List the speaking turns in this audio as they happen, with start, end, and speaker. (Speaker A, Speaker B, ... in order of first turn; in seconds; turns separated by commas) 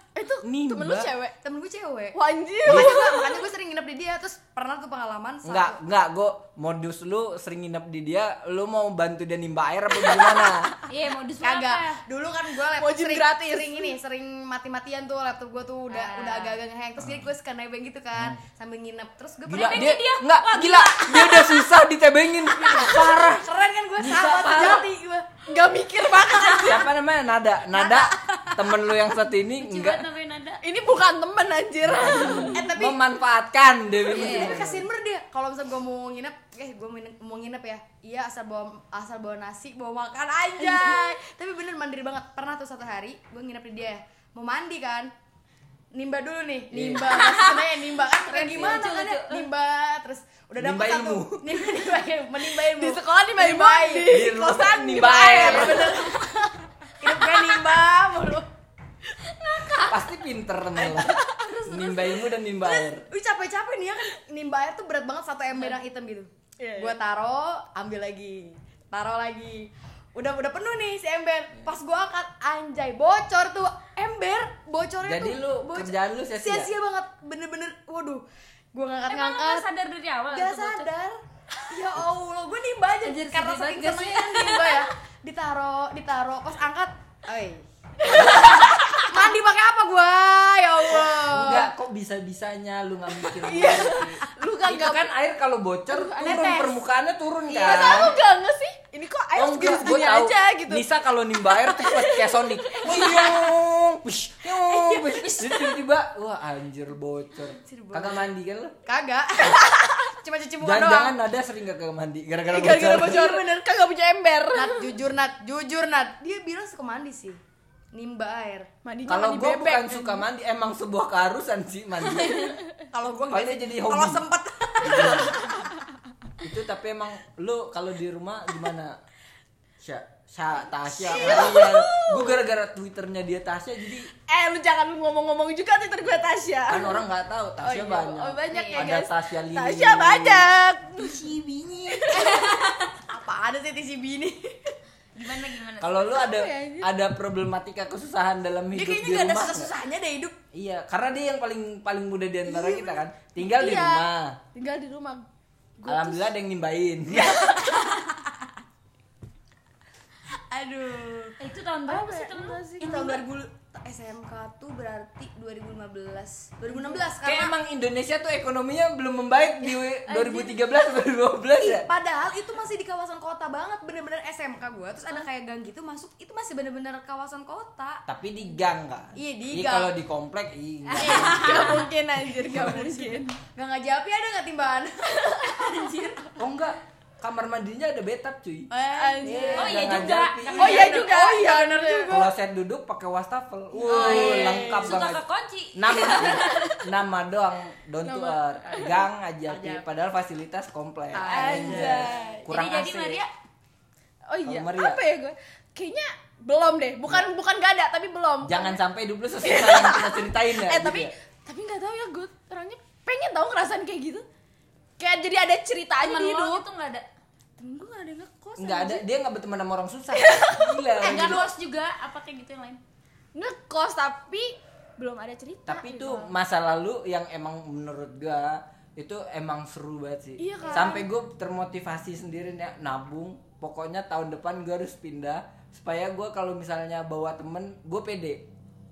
Speaker A: 0.1-1.4, Speaker B: 0.4-1.1, Speaker C: 1.4-5.8, Speaker A: 2.1-3.5, Speaker B: 2.6-3.0, Speaker B: 5.4-10.7, Speaker D: 10.9-12.0, Speaker C: 11.4-20.0, Speaker A: 12.8-13.9, Speaker D: 15.9-16.6, Speaker B: 17.0-17.3, Speaker B: 19.5-23.5, Speaker D: 19.5-21.6, Speaker C: 22.6-25.3, Speaker B: 24.0-24.9, Speaker A: 25.4-26.9, Speaker B: 26.6-30.1, Speaker C: 27.7-28.7, Speaker D: 29.6-30.6, Speaker A: 30.6-32.7, Speaker B: 31.8-34.9, Speaker C: 32.5-33.0, Speaker C: 34.1-45.1, Speaker D: 34.1-34.6, Speaker A: 40.6-41.1, Speaker C: 45.9-58.5, Speaker B: 46.7-47.1, Speaker D: 47.1-47.7, Speaker D: 48.2-49.5, Speaker B: 50.6-51.7, Speaker A: 52.4-56.3, Speaker B: 54.1-56.0, Speaker A: 57.0-57.8, Speaker D: 59.3-60.0, Speaker B: 59.8-63.1, Speaker A: 60.8-61.6, Speaker D: 61.5-62.1, Speaker C: 62.8-79.6, Speaker A: 66.6-67.0, Speaker B: 75.0-76.7, Speaker D: 79.1-80.9, Speaker C: 80.3-91.7, Speaker D: 83.0-84.9, Speaker A: 88.0-89.3, Speaker B: 91.2-98.2, Speaker A: 93.3-95.1, Speaker A: 95.9-96.8, Speaker C: 96.3-96.6, Speaker A: 97.5-100.8, Speaker B: 99.3-108.8, Speaker A: 101.5-103.5, Speaker A: 104.6-105.8, Speaker C: 107.6-108.3, Speaker C: 108.8-111.2, Speaker A: 109.5-109.8, Speaker B: 110.6-113.4, Speaker A: 112.5-114.9, Speaker C: 114.5-117.4, Speaker C: 117.9-118.7, Speaker A: 118.8-120.2, Speaker B: 119.1-122.6, Speaker A: 122.2-122.5, Speaker C: 122.9-125.6, Speaker B: 123.3-124.2, Speaker B: 124.8-125.3, Speaker B: 126.4-129.0, Speaker B: 129.8-134.1, Speaker A: 131.0-132.4, Speaker C: 131.1-131.7, Speaker A: 134.2-137.1, Speaker B: 136.7-140.5, Speaker A: 137.6-142.6, Speaker D: 138.5-138.9, Speaker B: 141.1-142.1, Speaker C: 142.1-144.8, Speaker D: 145.1-146.2, Speaker B: 145.8-149.7, Speaker A: 146.1-146.9, Speaker C: 148.7-150.4, Speaker B: 150.5-154.4, Speaker C: 152.5-152.8, Speaker A: 153.4-155.3, Speaker A: 155.8-156.3, Speaker B: 155.9-157.4, Speaker C: 157.1-158.3, Speaker A: 157.3-157.8, Speaker C: 160.5-161.4, Speaker D: 161.4-163.2, Speaker A: 161.9-162.9, Speaker C: 162.8-167.5, Speaker A: 166.8-167.0, Speaker B: 167.2-171.9, Speaker D: 170.2-170.5, Speaker C: 171.6-178.0, Speaker B: 178.1-181.8, Speaker C: 179.2-179.9, Speaker D: 181.0-181.9, Speaker A: 181.0-183.3, Speaker C: 181.0-181.6, Speaker B: 182.4-183.2, Speaker C: 183.6-185.9, Speaker D: 185.6-186.2, Speaker B: 186.4-188.7, Speaker C: 188.7-189.9, Speaker A: 188.9-192.2, Speaker B: 189.2-190.9, Speaker D: 189.6-191.2, Speaker C: 190.4-192.3, Speaker B: 192.1-195.2, Speaker A: 193.8-195.0, Speaker D: 193.9-196.8, Speaker C: 193.9-194.5, Speaker B: 195.8-203.2, Speaker A: 198.1-199.8, Speaker A: 201.2-202.5, Speaker D: 201.2-203.3, Speaker C: 201.3-201.9, Speaker A: 204.3-208.8, Speaker B: 204.4-205.0, Speaker B: 208.4-211.1, Speaker A: 209.4-214.3, Speaker A: 215.0-216.6, Speaker D: 216.0-217.1, Speaker A: 217.6-219.0, Speaker B: 218.6-221.4, Speaker A: 220.1-221.4, Speaker D: 221.0-222.8, Speaker A: 223.3-226.3, Speaker B: 225.7-238.4, Speaker A: 230.4-231.1, Speaker C: 230.6-230.9